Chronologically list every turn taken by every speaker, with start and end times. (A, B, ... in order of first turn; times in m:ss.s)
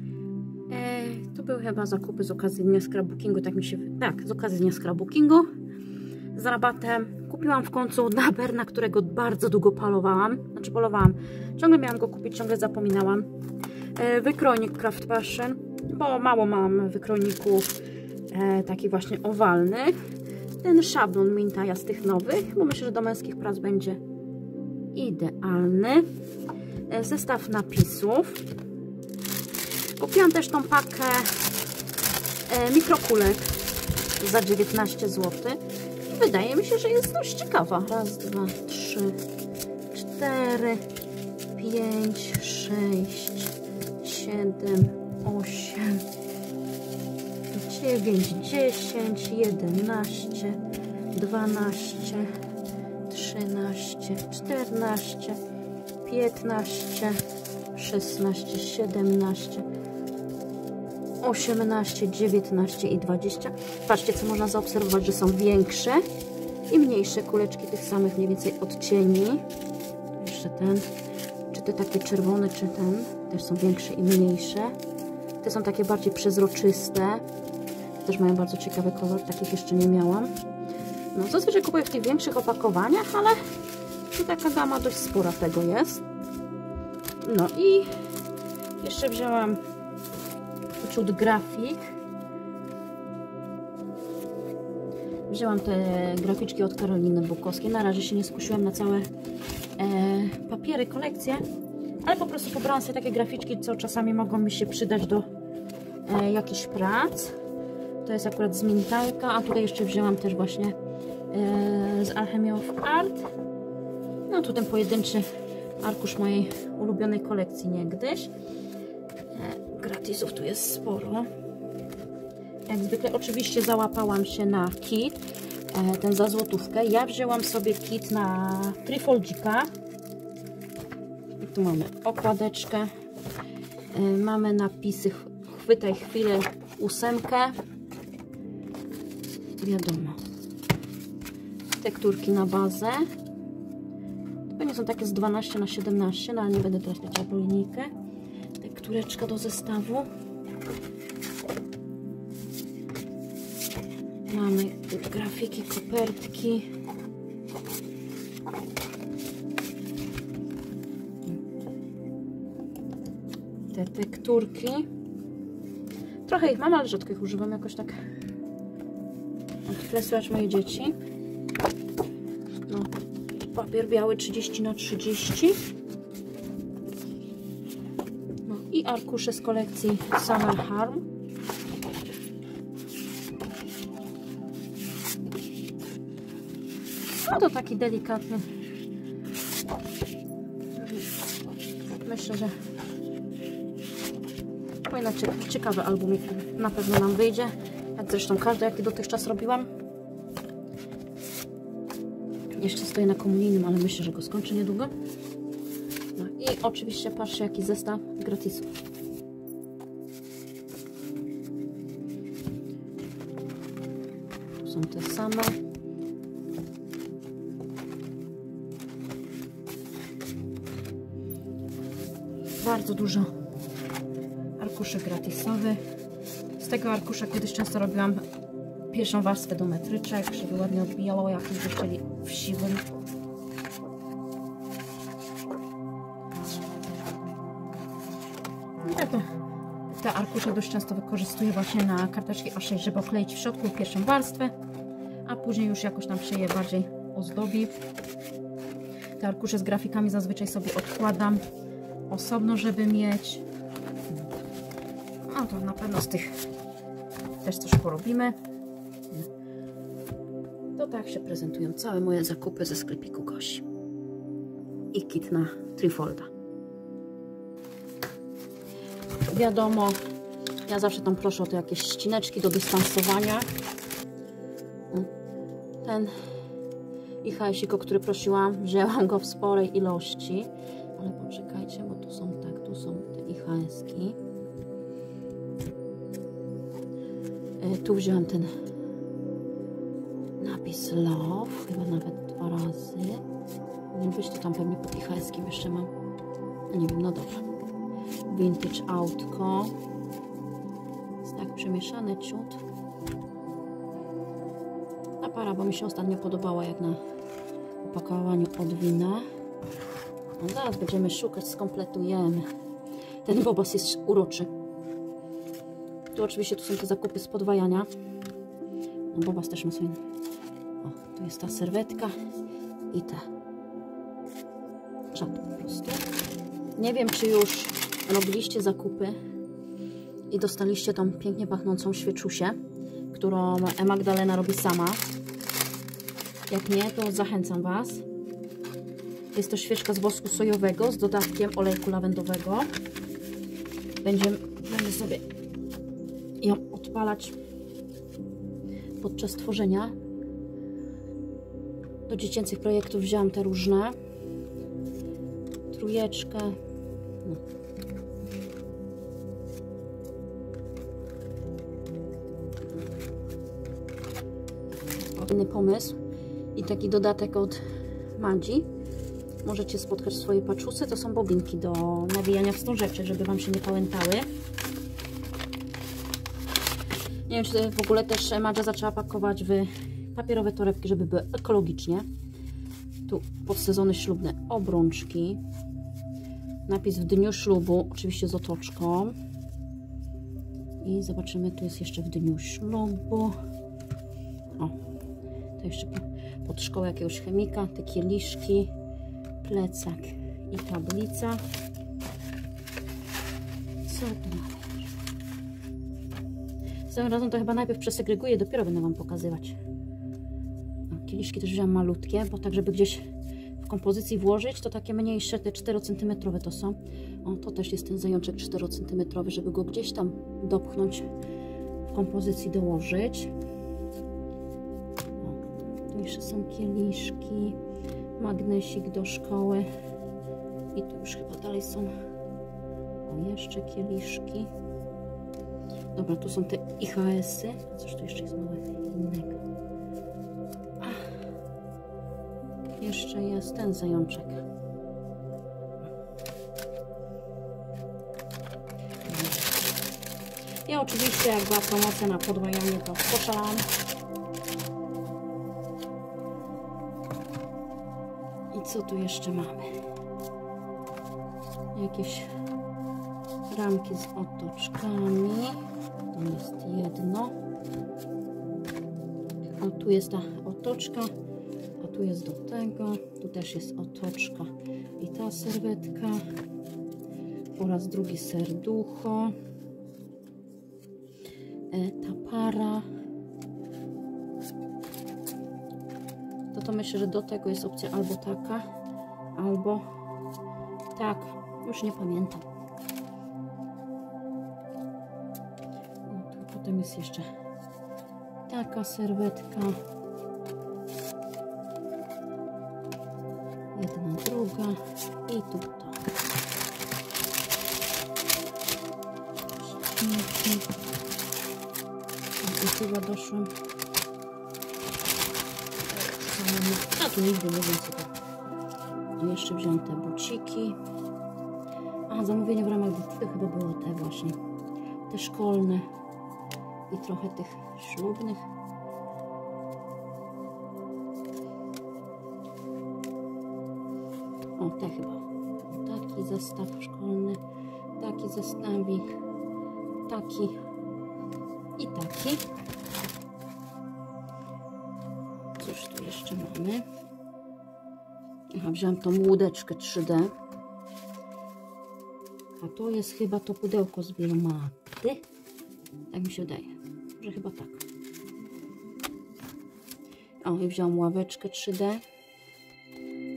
0:00.7-0:05.5 A
0:06.3-0:13.3 A
0:14.0-0:17.7 A
0:18.3-0:20.0 A
0:20.6-0:24.0 A
0:24.9-0:26.1 A
0:26.9-0:28.4 A
0:30.0-0:31.4 A
0:32.5-0:33.6 A
0:34.2-0:39.2 A
0:39.9-0:40.8 A
0:41.6-0:46.0 A
0:47.5-0:50.6 A
0:51.1-0:52.3 A
0:53.1-0:55.4 A
0:56.0-0:57.2 A
0:57.7-0:59.7 A
1:01.2-1:06.0 A
1:06.7-1:09.4 A
1:10.2-1:10.9 A
1:11.5-1:14.8 A
1:15.4-1:17.2 A
1:18.0-1:20.3 A
1:21.1-1:23.4 A
1:24.1-1:26.0 A
1:27.2-1:27.9 A
1:28.8-1:29.6 A
1:30.8-1:31.8 A
1:35.3-1:39.1 A
1:39.8-1:41.4 A
1:42.0-1:45.3 A
1:46.0-1:47.4 A
1:48.0-1:50.8 A
1:51.3-1:53.3 A
1:54.3-1:55.3 A
1:55.8-1:58.3 A
1:59.3-2:01.3 A
2:02.7-2:09.7 A
2:11.4-2:12.9 A
2:13.9-2:17.6 A
2:19.6-2:20.2 A
2:21.7-2:23.1 A
2:24.5-2:27.9 A
2:28.6-2:30.1 A
2:34.3-2:36.7 A
2:43.7-2:44.9 A
2:46.3-2:48.0 A
2:49.7-2:51.0 A
2:53.4-2:55.6 A
2:58.4-3:01.1 A
3:07.2-3:08.5 A
3:10.8-3:11.1 A
3:12.0-3:12.6 A
3:14.9-3:19.7 A
3:22.5-3:24.9 A
3:26.2-3:28.8 A
3:34.6-3:35.6 A
3:42.6-3:43.3 A
3:44.6-3:45.8 A
3:46.6-3:48.2 A
3:48.9-3:52.8 A
3:58.8-3:59.3 A
3:59.9-4:04.5 A
4:05.3-4:07.8 A
4:09.2-4:11.4 A
4:12.1-4:13.4 A
4:15.3-4:16.4 A
4:17.4-4:18.4 A
4:20.8-4:23.7 A
4:24.9-4:26.3 A
4:29.3-4:30.0 A
4:30.7-4:33.5 A
4:35.8-4:36.2 A
4:37.2-4:44.2 A
4:47.6-4:48.5 A
4:50.4-4:53.2 A
4:53.9-4:55.9 A
4:56.7-4:57.4 A
4:58.3-4:59.8 A
5:01.2-5:02.6 A
5:05.2-5:07.0 A
5:07.8-5:09.3 A
5:10.4-5:12.5 A
5:13.2-5:14.5 A
5:16.1-5:17.9 A
5:19.1-5:20.0 A
5:20.8-5:22.2 A
5:22.9-5:23.3 A
5:25.1-5:26.0 A
5:26.8-5:29.2 A
5:30.3-5:32.6 A
5:33.1-5:35.0 A
5:36.5-5:38.0 A
5:39.3-5:42.7 A
5:44.0-5:45.2 A
5:46.4-5:47.4 A
5:49.0-5:49.9 A
5:52.1-5:54.0 A
5:55.7-5:56.6 A
6:05.0-6:06.0 A
6:06.6-6:07.6 A
6:08.1-6:08.7 A
6:09.4-6:14.3 A
6:17.3-6:22.1 A
6:23.1-6:25.4 A
6:26.7-6:29.1 A
6:30.8-6:33.4 A
6:35.6-6:38.7 A
6:39.4-6:41.4 A
6:43.8-6:44.9 A
6:46.9-6:49.6 A
6:50.9-6:53.1 A
6:53.6-7:01.1 A
7:01.9-7:03.3 A
7:05.2-7:07.6 A
7:08.2-7:09.7 A
7:10.7-7:11.9 A
7:13.1-7:14.5 A
7:15.9-7:19.4 A
7:22.8-7:24.4 A
7:29.0-7:29.5 A
7:30.7-7:33.7 A
7:38.5-7:39.7 A
7:41.7-7:42.3 A
7:43.5-7:45.6 A
7:46.1-7:47.3 A
7:49.6-7:51.1 A
7:51.8-7:56.2 A
7:57.6-7:59.4 A
8:01.7-8:02.9 A
8:06.5-8:08.6 A
8:09.4-8:09.8 A
8:10.9-8:12.5 A
8:16.1-8:17.3 A
8:18.5-8:19.8 A
8:23.8-8:26.1 A
8:29.7-8:30.7 A
8:32.4-8:33.5 A
8:35.9-8:38.1 A
8:39.2-8:40.8 A
8:42.1-8:44.4 A
8:45.1-8:45.8 A
8:46.9-8:48.5 A
8:54.6-8:57.4 A
8:58.0-8:59.1 A
9:00.1-9:00.6 A
9:01.8-9:02.5 A
9:05.6-9:06.9 A
9:08.5-9:10.3 A
9:12.6-9:15.2 A
9:16.1-9:17.8 A
9:20.4-9:22.0 A